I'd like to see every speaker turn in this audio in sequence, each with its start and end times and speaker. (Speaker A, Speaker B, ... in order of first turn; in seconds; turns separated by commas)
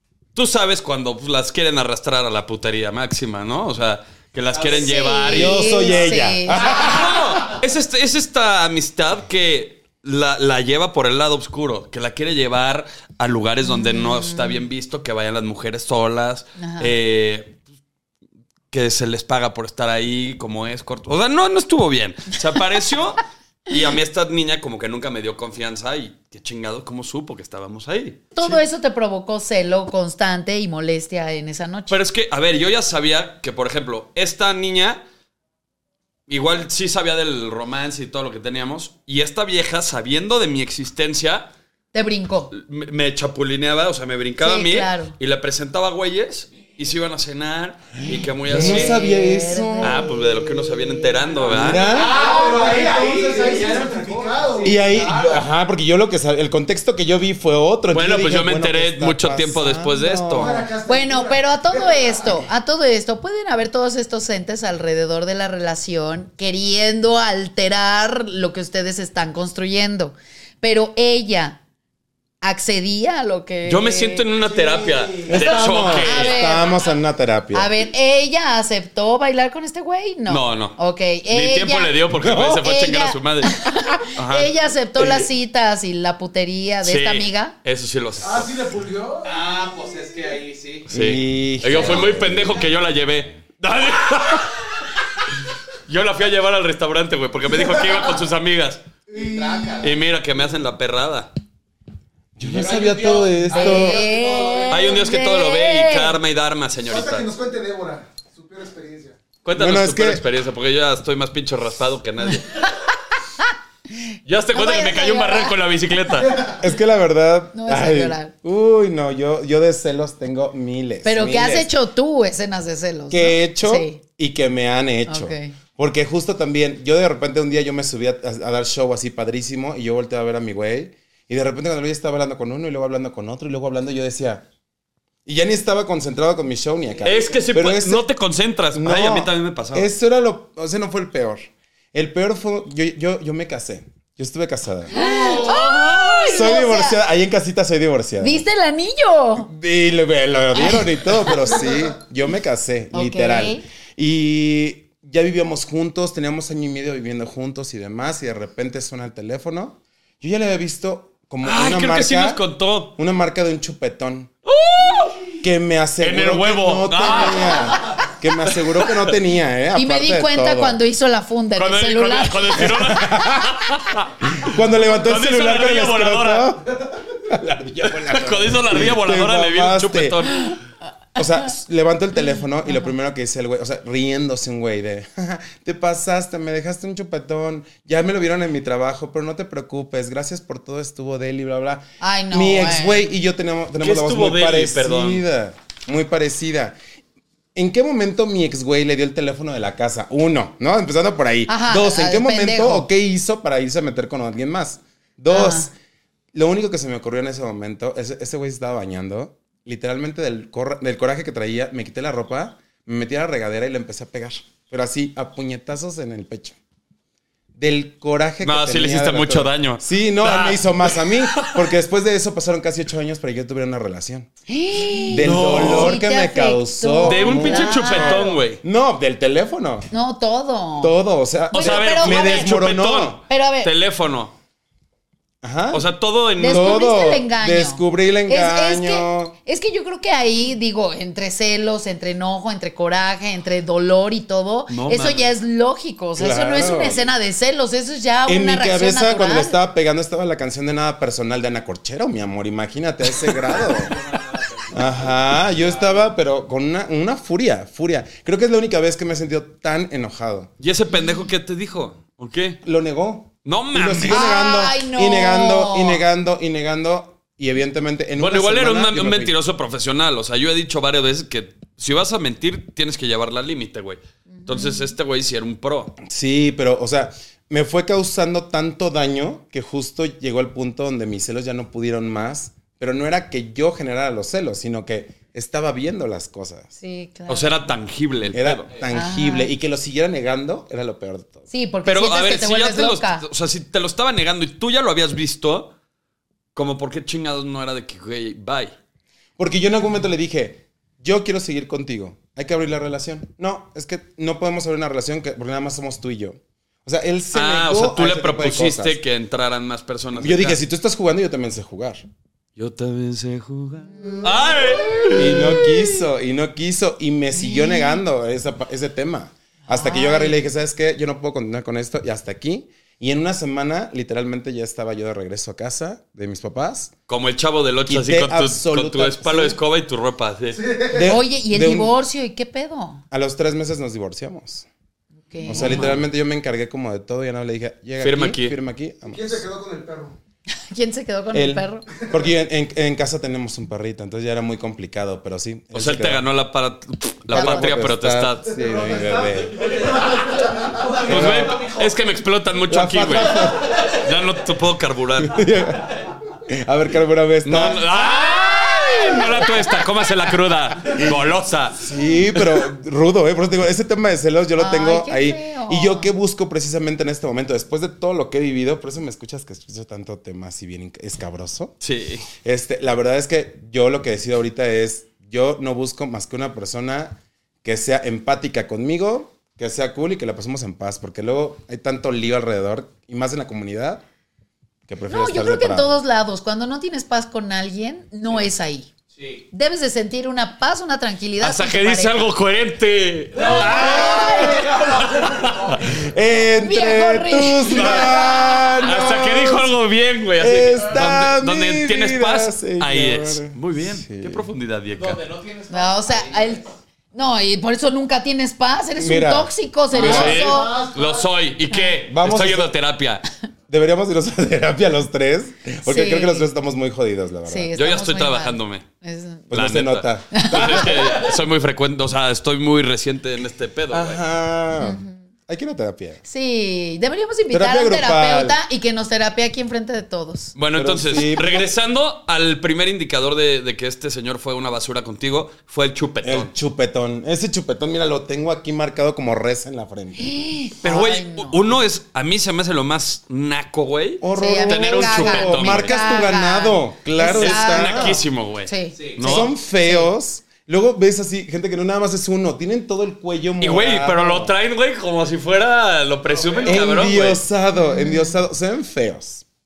Speaker A: 0.3-5.7, Speaker B: 4.5-4.9, Speaker C: 4.7-6.7, Speaker D: 5.3-7.2, Speaker A: 6.7-17.6, Speaker C: 13.6-14.6, Speaker C: 16.6-16.9, Speaker A: 18.7-28.6, Speaker C: 28.4-32.0, Speaker A: 31.9-35.0, Speaker A: 36.3-41.5, Speaker C: 41.9-42.5, Speaker A: 42.5-49.0, Speaker C: 44.4-45.1, Speaker D: 48.4-50.2, Speaker C: 48.5-51.2, Speaker A: 49.8-51.9, Speaker B: 51.4-55.5, Speaker D: 51.5-52.2, Speaker E: 51.9-54.8, Speaker D: 54.6-60.6, Speaker A: 57.9-60.6, Speaker E: 60.3-62.4, Speaker C: 60.9-71.6, Speaker C: 72.4-74.3, Speaker A: 73.7-76.4, Speaker D: 75.3-77.7, Speaker C: 76.0-76.7, Speaker C: 77.5-82.0, Speaker A: 80.3-80.8, Speaker A: 81.3-83.5, Speaker D: 82.1-82.6, Speaker C: 82.6-87.5, Speaker A: 84.1-84.5, Speaker A: 86.8-88.5, Speaker E: 88.2-89.3, Speaker B: 89.2-90.9, Speaker D: 90.9-92.6, Speaker A: 90.9-94.6, Speaker A: 95.9-98.8, Speaker E: 99.1-99.9, Speaker B: 99.1-99.9, Speaker A: 99.8-101.3, Speaker D: 102.4-104.0, Speaker B: 102.4-105.0, Speaker C: 103.5-106.2, Speaker A: 104.7-107.3, Speaker E: 106.8-109.2, Speaker A: 109.4-112.7, Speaker D: 109.5-110.2, Speaker A: 114.2-116.5, Speaker C: 114.5-115.5, Speaker E: 116.2-116.5, Speaker D: 116.6-121.7, Speaker C: 117.5-118.3, Speaker C: 121.0-124.0, Speaker D: 123.1-134.4, Speaker C: 125.1-125.5, Speaker D: 135.2-138.1, Speaker A: 137.0-139.9, Speaker D: 138.7-145.0, Speaker C: 144.9-147.0, Speaker A: 145.2-146.4, Speaker D: 146.2-148.4, Speaker C: 148.2-149.5, Speaker D: 149.4-162.4, Speaker C: 152.9-153.6, Speaker A: 161.4-162.9, Speaker D: 162.9-164.3, Speaker A: 164.4-165.3, Speaker D: 165.4-170.8, Speaker A: 166.0-167.7, Speaker C: 169.7-172.7, Speaker A: 171.6-174.1, Speaker D: 172.6-173.4, Speaker D: 174.2-176.7, Speaker A: 174.9-176.6, Speaker D: 177.2-180.2, Speaker A: 177.8-180.6, Speaker D: 181.2-196.8, Speaker C: 192.0-193.1, Speaker A: 193.8-195.2, Speaker D: 197.5-205.7, Speaker C: 201.5-202.9, Speaker C: 205.3-205.7, Speaker D: 206.3-216.6, Speaker D: 217.6-224.3, Speaker A: 218.4-221.6, Speaker C: 224.5-228.4, Speaker D: 225.1-229.9, Speaker A: 225.2-226.0, Speaker A: 227.0-228.6, Speaker C: 229.9-230.9, Speaker D: 230.8-233.2, Speaker C: 231.5-232.6, Speaker A: 231.5-234.3, Speaker C: 233.3-233.7, Speaker D: 235.4-235.8, Speaker A: 235.7-236.8, Speaker D: 236.4-239.3, Speaker C: 236.4-249.6, Speaker A: 244.7-245.3, Speaker D: 246.2-247.1, Speaker D: 248.2-254.0, Speaker B: 253.7-256.0, Speaker D: 254.7-260.5, Speaker A: 260.6-262.6, Speaker D: 262.6-269.3, Speaker A: 263.4-264.2, Speaker C: 264.1-266.0, Speaker A: 268.2-276.0, Speaker C: 274.4-274.9, Speaker D: 276.0-286.7, Speaker C: 286.8-287.6, Speaker A: 287.3-288.7, Speaker D: 288.3-291.5, Speaker C: 288.9-289.5, Speaker C: 291.5-293.2, Speaker A: 291.8-295.7, Speaker A: 296.5-298.7, Speaker D: 299.4-309.0, Speaker A: 307.3-310.6, Speaker D: 310.1-312.1, Speaker A: 312.6-315.7, Speaker C: 314.0-315.1, Speaker D: 315.1-326.9, Speaker C: 317.4-317.9, Speaker C: 319.7-320.4, Speaker A: 327.1-330.6, Speaker D: 327.9-329.6, Speaker E: 330.5-331.1, Speaker D: 330.9-332.0, Speaker C: 331.0-333.0, Speaker D: 333.1-334.7, Speaker C: 335.3-335.9, Speaker D: 335.4-339.4, Speaker A: 335.5-336.0, Speaker A: 338.0-338.6, Speaker E: 339.0-340.1, Speaker C: 340.7-341.8, Speaker D: 341.3-346.2, Speaker A: 345.7-348.5, Speaker D: 347.3-349.8, Speaker B: 348.6-351.9, Speaker E: 350.0-350.8, Speaker D: 351.1-351.6, Speaker A: 351.1-355.4, Speaker D: 352.7-353.7, Speaker D: 355.2-355.9, Speaker D: 356.4-357.8, Speaker A: 357.4-361.8, Speaker C: 357.9-359.8, Speaker D: 361.8-371.7, Speaker A: 362.3-362.6, Speaker C: 364.6-366.1, Speaker A: 371.8-372.3, Speaker D: 372.4-384.0, Speaker D: 384.9-386.0, Speaker C: 385.1-388.9, Speaker B: 389.1-389.4, Speaker C: 389.5-392.3, Speaker A: 391.4-395.8, Speaker B: 393.4-395.9, Speaker C: 393.4-394.7, Speaker D: 393.8-394.4, Speaker D: 396.0-399.7, Speaker C: 396.6-398.4, Speaker A: 397.7-405.2, Speaker D: 400.4-404.4, Speaker B: 404.9-406.7, Speaker C: 405.7-410.8, Speaker D: 409.0-410.5, Speaker E: 409.9-411.3, Speaker A: 410.0-413.2, Speaker C: 411.7-412.0, Speaker D: 412.1-412.7, Speaker D: 413.7-417.7, Speaker C: 415.8-416.5, Speaker C: 417.5-419.5, Speaker A: 417.8-418.9, Speaker D: 419.5-421.1, Speaker A: 419.5-424.2, Speaker C: 420.3-420.8, Speaker D: 423.9-426.2, Speaker C: 424.8-425.2, Speaker C: 426.2-430.5, Speaker D: 427.5-428.6, Speaker A: 430.5-436.5, Speaker D: 430.7-431.7, Speaker D: 436.2-440.3, Speaker C: 440.2-441.6, Speaker A: 440.8-446.0, Speaker D: 444.2-448.2, Speaker C: 444.3-450.1, Speaker A: 447.3-449.5, Speaker B: 448.9-449.3, Speaker D: 449.2-454.5, Speaker A: 453.6-457.4, Speaker B: 456.3-456.9, Speaker D: 456.6-459.4, Speaker C: 457.7-458.4